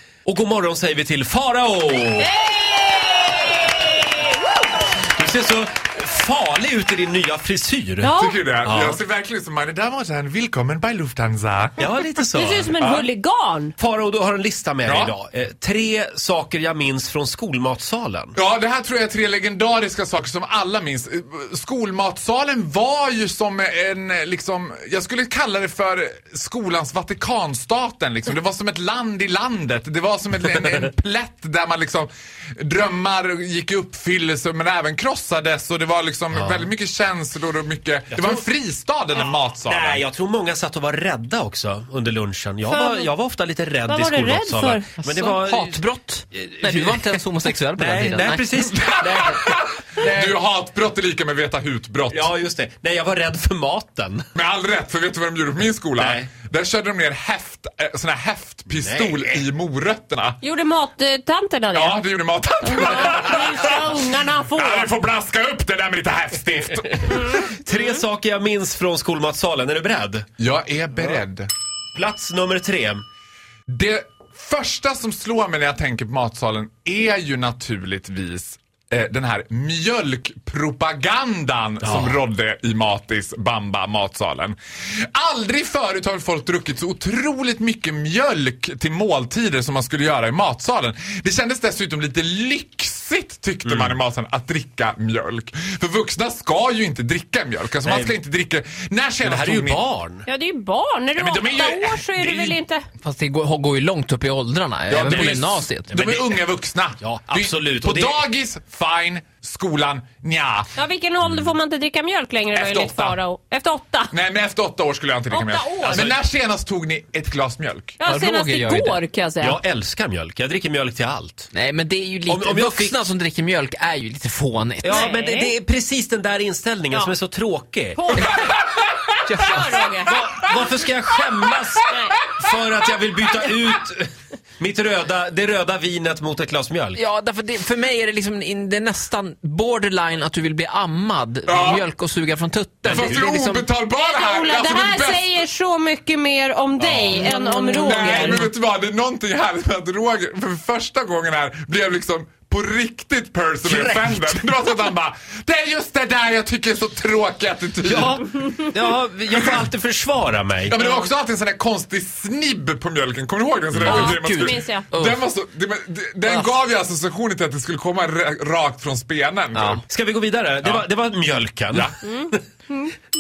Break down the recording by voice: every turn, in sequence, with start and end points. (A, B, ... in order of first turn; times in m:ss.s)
0:00.3-0:02.3 A
0:02.2-0:04.6 B
0:05.0-0:09.0 A
0:08.0-0:08.4 B
0:08.2-0:12.2 C
0:11.8-0:12.7 A
0:12.4-0:13.8 B
0:12.8-0:13.1 C
0:13.8-0:18.4 A
0:14.9-0:15.2 C
0:18.4-0:40.0 C
0:36.3-0:36.7 A
0:38.1-0:38.4 A
0:39.6-0:45.8 A
0:42.7-0:43.1 B
0:43.9-0:44.9 B
0:45.0-0:49.4 D
0:46.3-0:49.4 A
0:48.7-0:52.3 C
0:52.1-0:54.3 A
0:54.4-1:00.4 C
0:56.0-0:56.3 A
0:58.7-0:59.4 A
1:00.4-1:02.0 B
1:01.7-1:07.4 C
1:02.6-1:05.0 B
1:07.3-1:10.3 A
1:10.4-1:11.5 C
1:11.9-1:13.0 A
1:13.7-1:24.6 C
1:21.8-1:22.2 A
1:25.2-1:39.8 C
1:33.7-1:34.0 A
1:37.8-1:38.2 A
1:39.2-1:40.3 A
1:40.3-1:42.8 B
1:41.2-1:42.6 C
1:43.0-1:45.9 D
1:44.9-1:50.7 C
1:45.9-1:46.4 A
1:47.0-1:48.2 A
1:50.8-1:54.1 B
1:52.5-1:53.2 C
1:54.1-1:58.0 C
1:55.3-1:56.1 B
1:55.8-1:56.2 A
1:58.0-1:59.6 B
1:58.0-1:59.0 D
1:59.4-2:01.5 A
2:01.5-2:05.1 D
2:02.3-2:03.0 A
2:04.8-2:08.0 A
2:04.9-2:05.5 B
2:08.0-2:08.6 B
2:08.5-2:08.8 C
2:09.3-2:10.0 D
2:09.4-2:10.2 B
2:10.0-2:17.0 A
2:11.9-2:12.2 B
2:17.0-2:23.7 D
2:21.5-2:21.9 C
2:22.9-2:25.3 C
2:22.9-2:23.3 A
2:23.9-2:28.5 B
2:26.8-2:27.8 A
2:27.1-2:28.5 D
2:27.8-2:38.2 C
2:33.6-2:34.5 D
2:37.8-2:40.8 A
2:39.3-2:39.6 C
2:40.7-2:49.8 C
2:43.8-2:45.2 D
2:43.9-2:44.9 B
2:49.6-2:49.8 D
2:49.9-2:52.4 A
2:52.0-2:52.9 B